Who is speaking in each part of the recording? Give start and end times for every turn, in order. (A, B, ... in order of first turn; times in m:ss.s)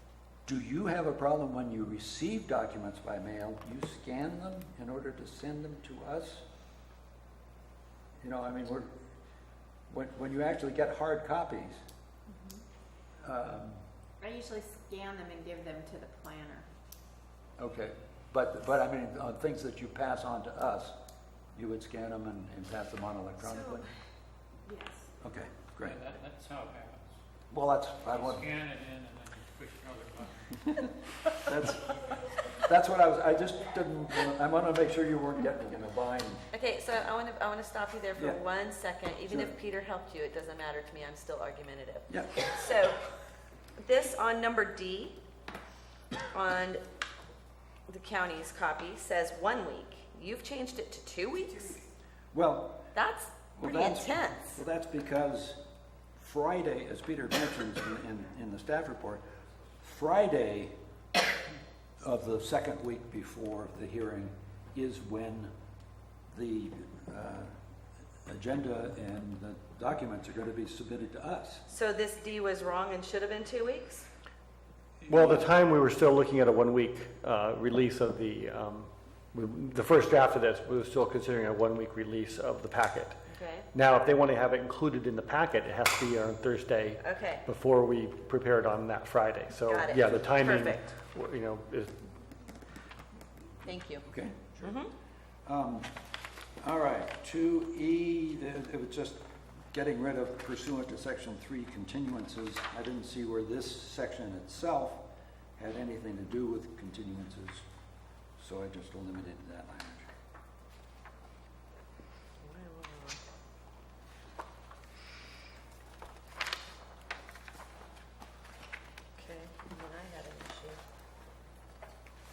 0:00.4-0:06.4 A
0:08.2-0:08.9 A
0:09.9-0:11.8 A
0:12.3-0:12.6 B
0:13.2-0:13.8 A
0:14.2-0:16.7 B
0:17.6-0:21.0 A
0:21.5-0:23.9 A
0:23.4-0:23.8 C
0:24.6-0:25.1 B
0:25.2-0:26.0 A
0:25.8-0:27.2 D
0:27.5-0:28.5 A
0:28.1-0:30.9 D
0:31.4-0:31.9 A
0:32.6-0:36.4 A
0:36.5-0:43.0 C
0:39.3-0:39.5 A
0:42.1-0:42.4 A
0:43.8-0:45.2 C
0:46.3-0:46.8 C
0:47.9-0:51.8 C
0:52.3-0:52.9 A
0:52.9-0:54.6 C
0:53.6-0:55.6 A
0:56.2-0:59.2 A
0:59.8-1:00.7 A
1:02.0-1:05.5 A
1:06.3-1:07.5 A
1:08.2-1:11.6 A
1:11.7-1:14.1 C
1:15.1-1:32.1 E
1:23.3-1:23.7 C
1:27.0-1:27.4 C
1:29.7-1:30.8 C
1:33.6-1:34.0 C
1:34.0-1:34.7 A
1:34.6-1:34.9 C
1:35.4-1:35.9 A
1:36.6-1:45.0 A
1:45.6-1:47.6 A
1:48.4-1:50.1 A
1:52.4-1:53.2 C
1:59.2-2:00.8 C